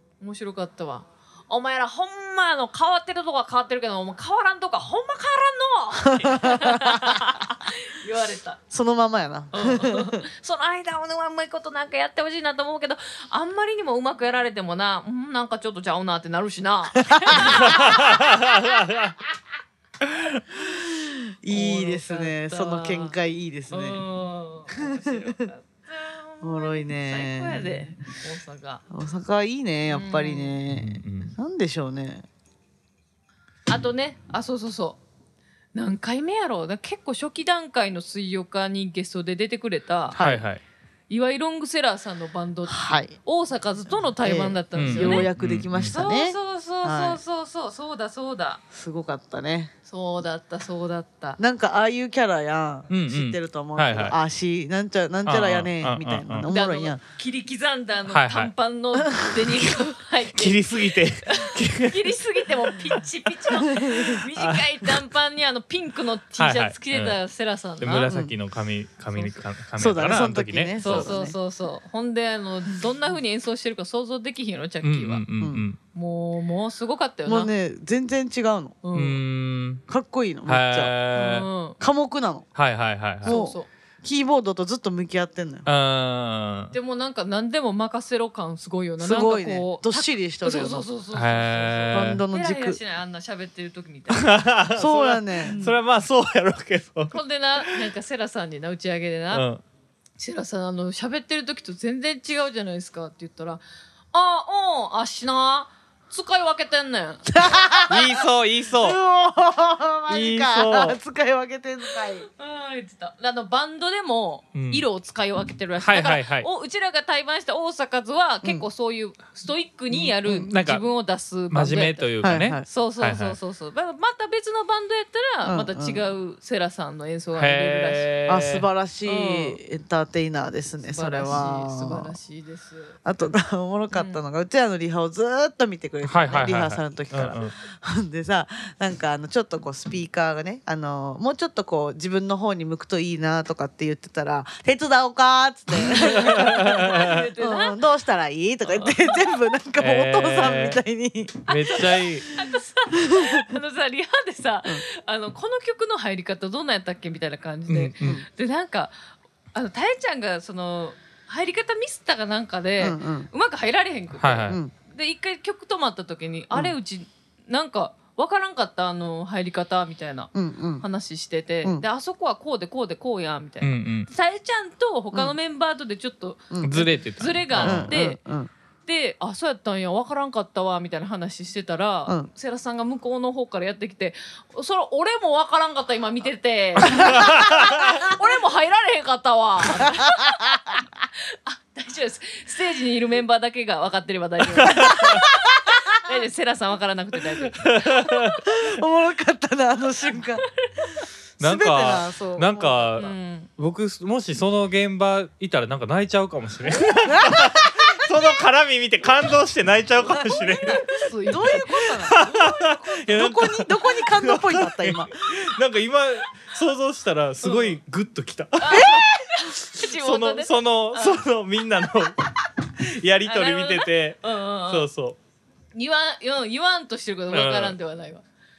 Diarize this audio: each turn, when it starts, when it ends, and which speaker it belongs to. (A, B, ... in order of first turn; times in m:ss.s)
0:00.2-0:08.6 A
0:06.0-0:07.4 B
0:08.7-0:10.2 B
0:09.5-0:18.8 A
0:17.1-0:18.0 B
0:17.6-0:19.1 C
0:20.5-0:24.0 B
0:21.5-0:23.2 A
0:23.7-0:28.8 A
0:24.7-0:25.5 B
0:26.4-0:28.0 B
0:28.9-0:32.2 B
0:29.9-0:30.6 A
0:30.7-0:31.3 C
0:33.7-0:35.0 A
0:35.7-0:40.2 A
0:40.1-0:40.4 B
0:40.2-0:40.6 C
0:41.1-0:45.3 A
0:42.7-0:43.2 B
0:44.2-0:47.2 B
0:44.7-0:46.0 C
0:45.9-0:48.6 A
0:48.7-0:49.7 B
0:49.9-0:51.4 A
0:51.4-0:57.0 B
0:52.9-0:54.2 C
0:55.2-0:56.5 C
0:56.5-1:08.1 A
0:58.0-0:58.5 C
0:59.0-0:59.6 B
1:00.3-1:02.1 C
1:03.6-1:04.2 B
1:04.3-1:04.7 C
1:06.4-1:07.2 C
1:07.8-1:11.2 C
1:08.1-1:08.3 B
1:09.8-1:11.4 B
1:10.8-1:15.2 A
1:14.8-1:15.8 C
1:15.4-1:15.6 B
1:15.9-1:17.5 A
1:17.2-1:18.8 B
1:18.8-1:19.2 A
1:18.9-1:19.8 C
1:19.9-1:21.2 B
1:20.5-1:21.5 C
1:21.1-1:21.8 A
1:21.8-1:22.5 B
1:22.5-1:23.4 C
1:23.2-1:25.7 B
1:23.2-1:23.7 A
1:25.6-1:26.7 C
1:26.7-1:34.5 A
1:29.0-1:30.8 B
1:31.1-1:32.2 C
1:31.9-1:32.8 B
1:34.1-1:37.8 C
1:34.7-1:35.6 B
1:35.4-1:35.7 A
1:37.1-1:39.5 A
1:39.3-1:39.6 C
1:40.2-1:47.2 A
1:47.3-1:52.3 B
1:47.8-1:49.0 C
1:50.1-1:51.0 C
1:52.2-2:02.1 A
1:54.5-1:54.8 C
1:55.8-1:56.5 C
1:59.9-2:00.5 B
2:00.5-2:00.9 C
2:01.5-2:03.4 C
2:02.2-2:02.6 B
2:02.6-2:08.1 A
2:05.4-2:06.0 B
2:07.3-2:08.7 C
2:08.3-2:12.2 B
2:09.0-2:09.6 A
2:10.9-2:13.0 A
2:13.0-2:31.8 B
2:13.9-2:14.2 A
2:16.0-2:17.6 C
2:25.9-2:27.2 C
2:26.0-2:27.8 A
2:28.6-2:29.4 A
2:29.8-2:30.8 C
2:31.5-2:32.3 C
2:31.6-2:38.9 A
2:32.9-2:33.5 B
2:37.7-2:38.2 C
2:39.5-2:58.2 A
2:42.8-2:43.3 B
2:44.2-2:44.6 C
2:50.3-2:50.8 B
2:53.6-2:54.1 C
2:56.5-2:56.9 B
2:56.6-2:57.9 C
2:57.5-2:58.5 B
2:58.8-3:10.8 A
3:07.0-3:07.6 B
3:07.1-3:07.6 C
3:09.8-3:10.7 B
3:11.3-3:18.4 A
3:14.6-3:15.2 C
3:14.8-3:16.0 B
3:17.6-3:18.4 C
3:18.4-3:20.4 B
3:21.4-3:39.0 C
3:21.4-3:22.9 B
3:23.0-3:23.5 A
3:27.1-3:28.1 B
3:30.1-3:35.4 B
3:30.2-3:32.2 A
3:37.4-3:37.8 A
3:38.6-3:41.2 A
3:38.7-3:39.1 B
3:39.7-3:45.2 C
3:43.3-3:44.9 A
3:45.7-3:48.2 A
3:47.3-3:47.8 C